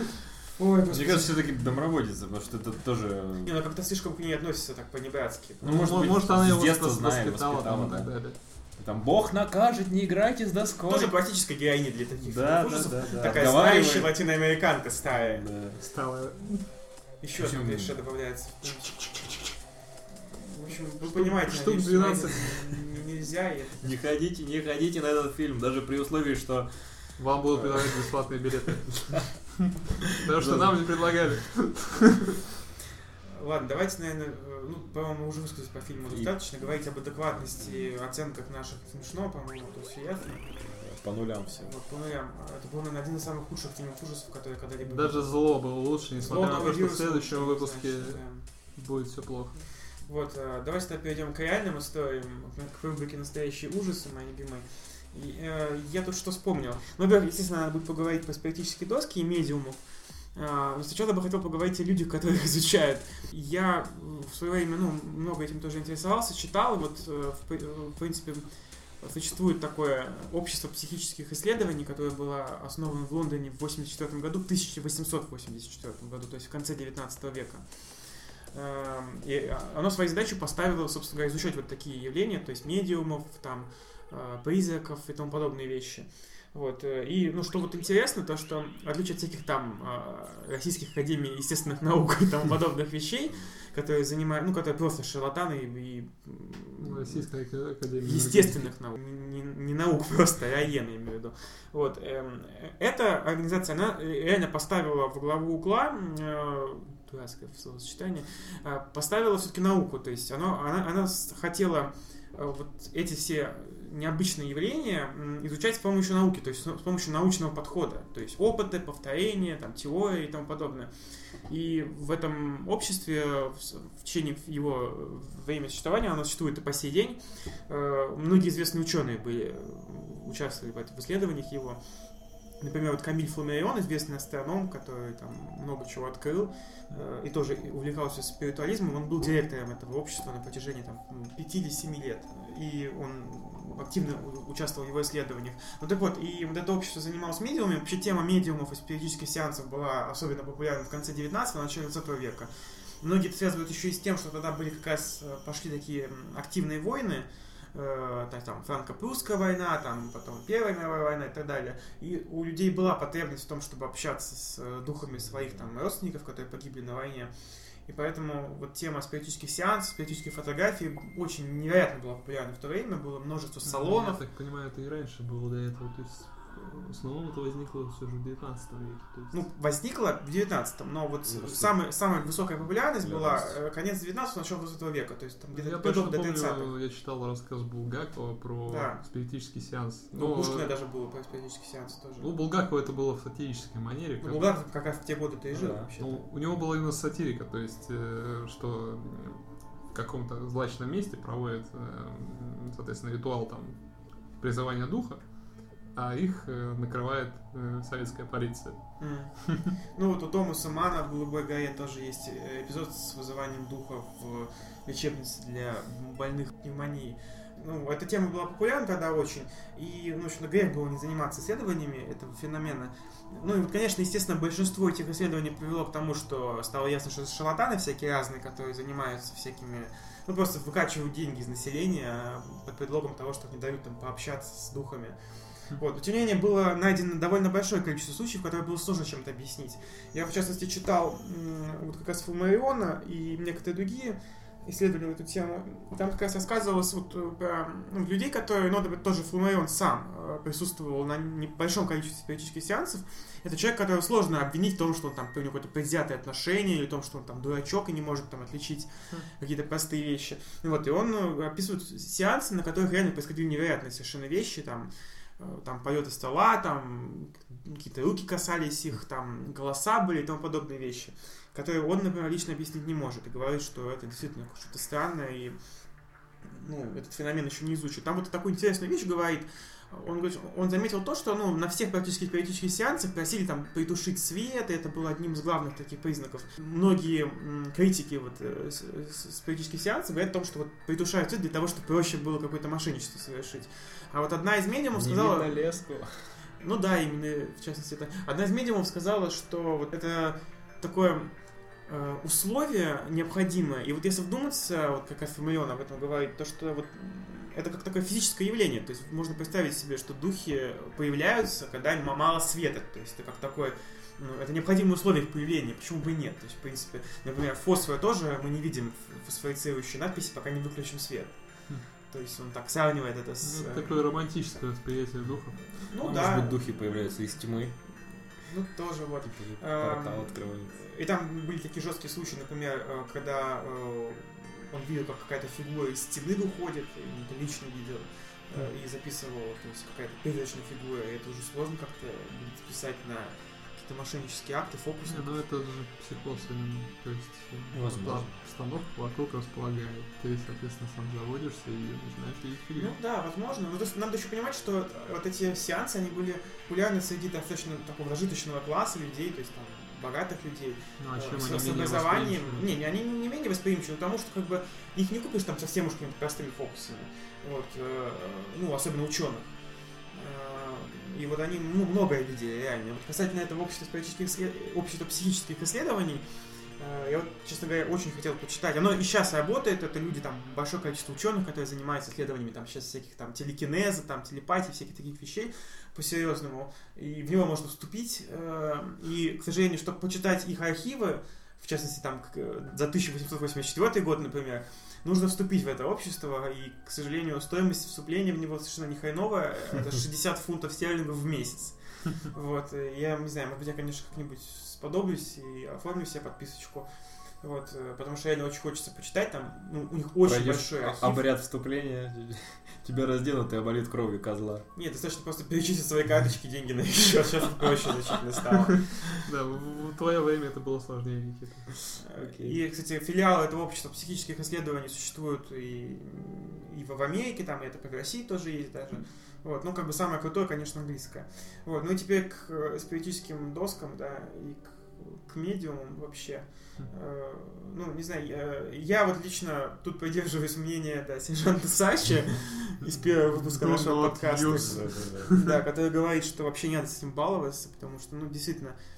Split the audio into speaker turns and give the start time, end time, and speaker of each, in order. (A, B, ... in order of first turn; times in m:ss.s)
0:00.5-0:01.4 A
0:00.9-0:03.5 B
0:03.4-0:05.9 A
0:05.6-0:11.1 B
0:05.6-0:08.4 C
0:10.8-0:15.4 A
0:12.2-0:14.1 B
0:15.1-0:15.8 B
0:15.8-0:16.7 C
0:17.2-0:19.0 A
0:17.4-0:17.9 B
0:18.6-0:19.5 C
0:20.3-0:23.9 A
0:20.7-0:22.9 C
0:23.8-0:27.0 B
0:27.2-0:32.3 C
0:27.5-0:28.1 B
0:30.3-0:31.0 B
0:33.3-0:40.5 A
0:40.6-0:41.7 B
0:41.6-0:45.4 A
0:44.8-0:49.7 C
0:46.2-0:48.4 A
0:50.0-0:59.8 A
1:00.3-1:08.4 A
1:09.0-1:37.2 A
1:36.8-1:38.7 C
1:38.0-2:00.9 A
2:01.5-2:11.8 A
2:12.6-2:32.5 A
2:33.0-2:47.3 A
2:47.8-2:54.2 A
2:53.6-2:59.4 C
2:59.3-3:06.7 A
3:01.3-3:01.7 B
3:03.0-3:03.6 B
3:05.5-3:10.7 C
3:08.7-3:09.0 A
3:10.1-3:12.3 A
3:12.2-3:14.5 C
3:14.2-3:16.2 A
3:15.5-3:15.9 B
3:16.0-3:23.8 C
3:24.4-3:25.3 C
3:25.9-3:29.7 C
3:29.0-3:55.2 A
3:55.7-4:35.6 A
4:36.4-4:55.6 A
4:54.9-4:56.3 B
4:56.6-5:01.3 A
5:01.8-5:21.4 A
5:22.1-5:24.0 A
5:23.4-5:25.6 C
5:25.7-5:26.6 A
5:26.0-5:27.8 B
5:28.4-5:45.4 A
5:29.2-5:30.7 B
5:45.1-5:52.9 C
5:47.7-5:48.3 B
5:52.8-6:09.5 A
6:01.0-6:02.7 C
6:10.1-6:16.2 A
6:16.8-6:46.9 A
6:47.4-6:51.2 A
6:50.2-6:54.6 B
6:54.7-6:59.1 A
6:59.1-7:02.0 C
7:02.0-7:28.8 A
7:23.3-7:25.5 C
7:24.5-7:25.4 B